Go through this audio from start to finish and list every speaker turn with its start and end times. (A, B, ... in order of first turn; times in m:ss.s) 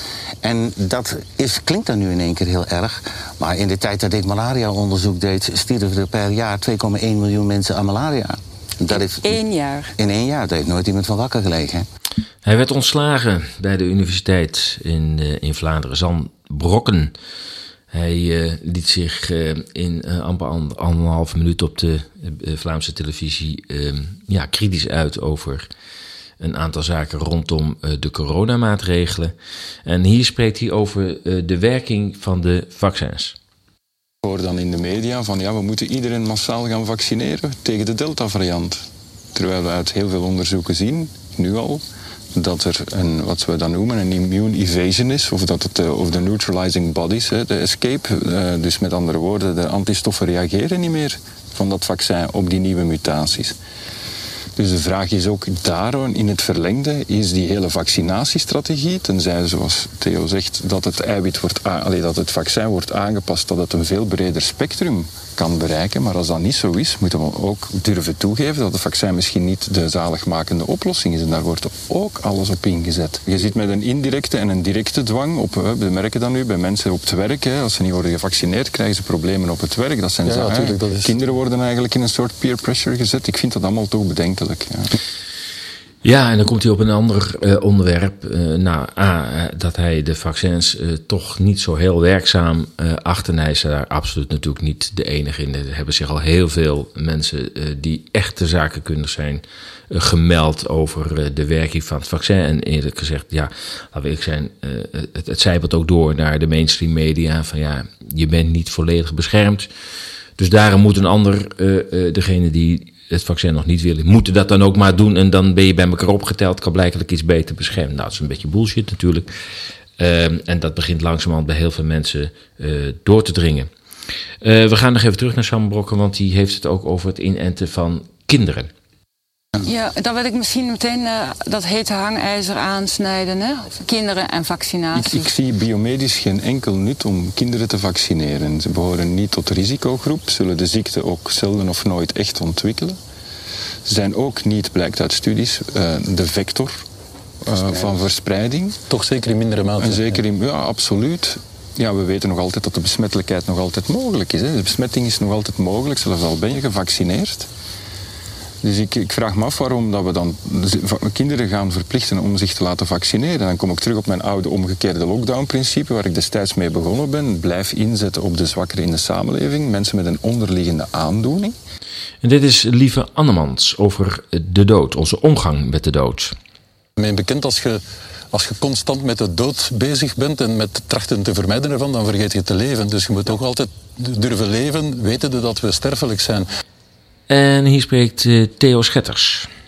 0:00.4-0:09.4 A
0:08.9-0:09.9 B
0:10.0-0:11.9 A
0:12.4-0:17.1 C
0:17.9-0:25.7 C
0:26.4-0:29.3 C
0:29.8-0:33.4 C
0:34.2-0:41.8 D
0:42.3-0:53.6 D
0:54.6-1:24.9 D
1:20.2-1:21.2 E
1:26.0-1:49.7 C
1:50.4-1:59.3 C
2:00.0-2:03.7 C
2:04.4-2:08.7 C
2:09.6-2:15.3 B
2:14.9-2:23.0 D
2:23.8-2:26.8 D
2:27.4-2:28.8 D
2:28.9-2:30.2 E
2:29.8-2:37.5 D
2:38.6-2:51.6 D
2:52.2-2:56.3 C
2:57.0-3:06.5 E
3:07.3-3:09.5 C